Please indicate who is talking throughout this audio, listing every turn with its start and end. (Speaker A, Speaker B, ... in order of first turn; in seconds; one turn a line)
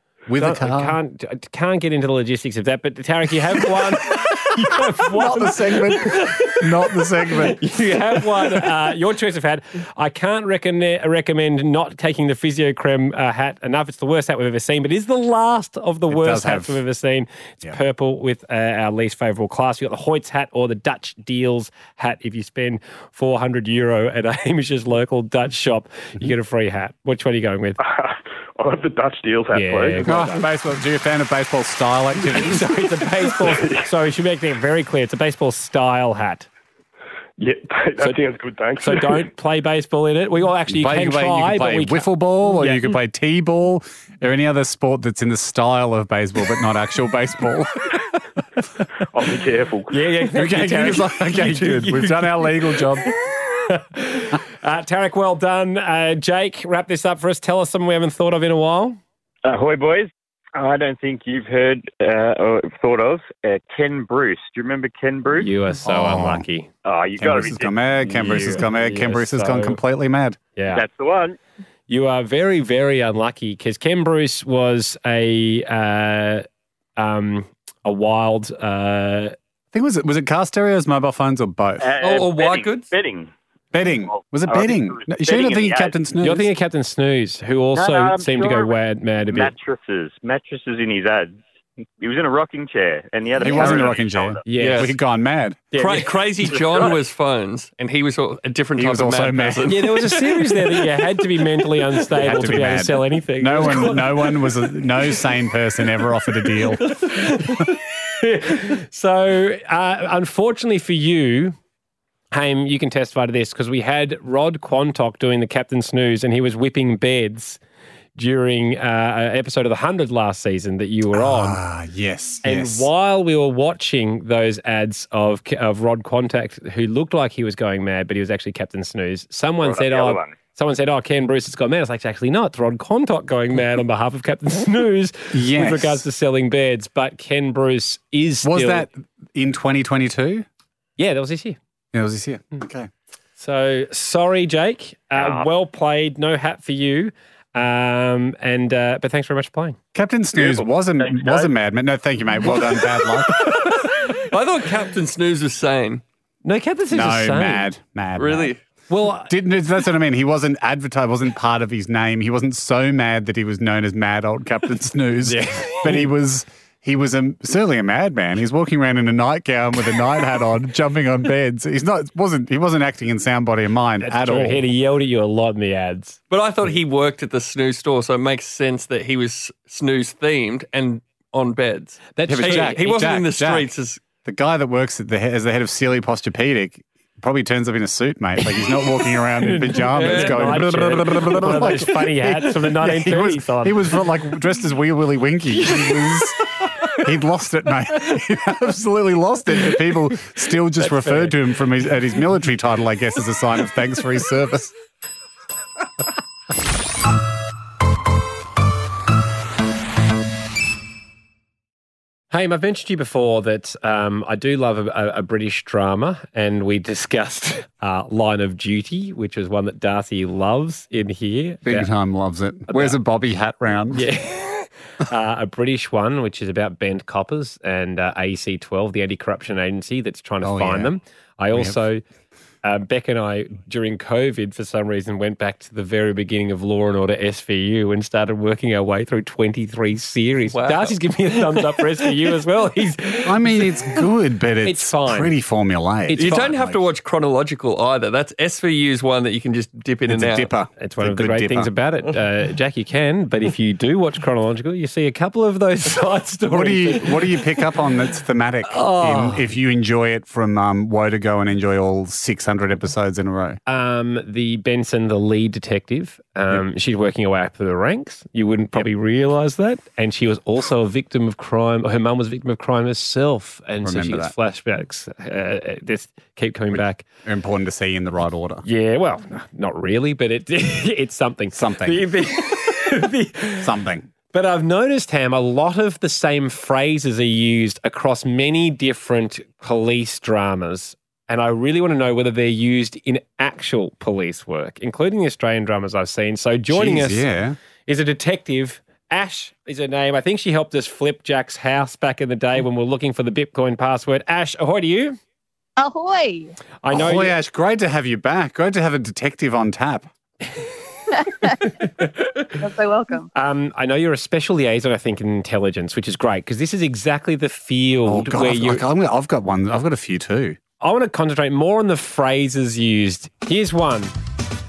Speaker A: 0.3-1.0
Speaker B: 0.4-6.7
Speaker A: 4.8-7.8
Speaker B: 7.3-27.8
Speaker A: 16.1-16.8
Speaker C: 27.8-30.1
Speaker B: 29.5-30.5
Speaker A: 30.0-32.8
Speaker B: 32.3-36.5
Speaker C: 33.4-33.9
Speaker C: 37.4-39.2
Speaker B: 38.8-42.9
Speaker A: 40.7-47.9
Speaker C: 49.1-50.0
Speaker B: 49.9-52.5
Speaker A: 50.3-53.1
Speaker B: 53.1-59.0
Speaker D: 59.5-65.5
Speaker B: 65.4-66.7
Speaker A: 65.8-66.5
Speaker D: 66.8-67.7
Speaker A: 67.2-70.4
Speaker B: 68.0-69.8
Speaker B: 70.6-70.8
Speaker D: 70.7-71.4
Speaker B: 71.9-76.5
Speaker B: 77.0-79.4
Speaker A: 79.7-81.9
Speaker D: 81.8-83.3
Speaker E: 82.0-82.9
Speaker A: 83.7-86.5
Speaker D: 84.0-86.0
Speaker B: 86.2-89.5
Speaker D: 87.8-88.8
Speaker D: 89.3-91.4
Speaker D: 92.0-94.4
Speaker A: 93.4-95.6
Speaker B: 94.5-94.9
Speaker E: 94.5-94.9
Speaker B: 95.7-96.6
Speaker E: 95.8-100.9
Speaker D: 96.5-96.9
Speaker A: 98.8-99.8
Speaker B: 99.7-105.1
Speaker A: 102.1-107.0
Speaker B: 106.9-111.6
Speaker B: 112.3-117.6
Speaker B: 118.2-121.6
Speaker A: 121.1-122.9
Speaker B: 122.4-138.9
Speaker D: 129.6-130.3
Speaker A: 135.3-136.0
Speaker A: 138.4-140.5
Speaker B: 141.0-141.6
Speaker A: 141.9-142.9
Speaker B: 143.4-149.8
Speaker D: 145.2-145.5
Speaker A: 149.9-153.6
Speaker D: 151.2-151.5
Speaker E: 153.5-156.0
Speaker B: 156.4-157.7
Speaker A: 156.9-158.5
Speaker E: 158.2-158.6
Speaker B: 158.9-159.3
Speaker A: 159.2-174.7
Speaker B: 165.2-166.1
Speaker B: 174.0-176.2
Speaker E: 176.3-184.0
Speaker B: 182.2-182.9
Speaker A: 182.3-183.7
Speaker A: 184.2-196.4
Speaker B: 189.4-194.1
Speaker E: 189.9-190.7
Speaker B: 195.6-196.1
Speaker A: 197.0-204.7
Speaker B: 200.8-201.4
Speaker B: 212.3-221.9
Speaker A: 221.7-224.1
Speaker B: 222.7-223.0
Speaker B: 223.9-232.0
Speaker A: 230.4-230.9
Speaker A: 231.5-231.8
Speaker B: 232.6-244.0
Speaker E: 240.5-242.1
Speaker A: 243.2-246.8
Speaker B: 244.6-245.3
Speaker B: 246.1-246.6
Speaker E: 246.2-250.5
Speaker A: 250.1-251.7
Speaker B: 250.8-257.6
Speaker A: 256.5-263.6
Speaker B: 258.7-259.5
Speaker B: 263.7-277.1
Speaker A: 273.8-274.3
Speaker A: 276.7-278.7
Speaker B: 278.6-283.7
Speaker A: 281.5-282.1
Speaker A: 283.6-284.1
Speaker B: 284.3-297.3
Speaker A: 296.7-297.6
Speaker B: 297.9-305.2
Speaker F: 305.8-306.5
Speaker B: 306.8-307.4
Speaker A: 306.9-310.1
Speaker F: 311.1-311.7
Speaker B: 311.5-312.4
Speaker F: 312.6-313.3
Speaker B: 313.3-318.8
Speaker A: 318.1-320.6
Speaker B: 320.8-324.1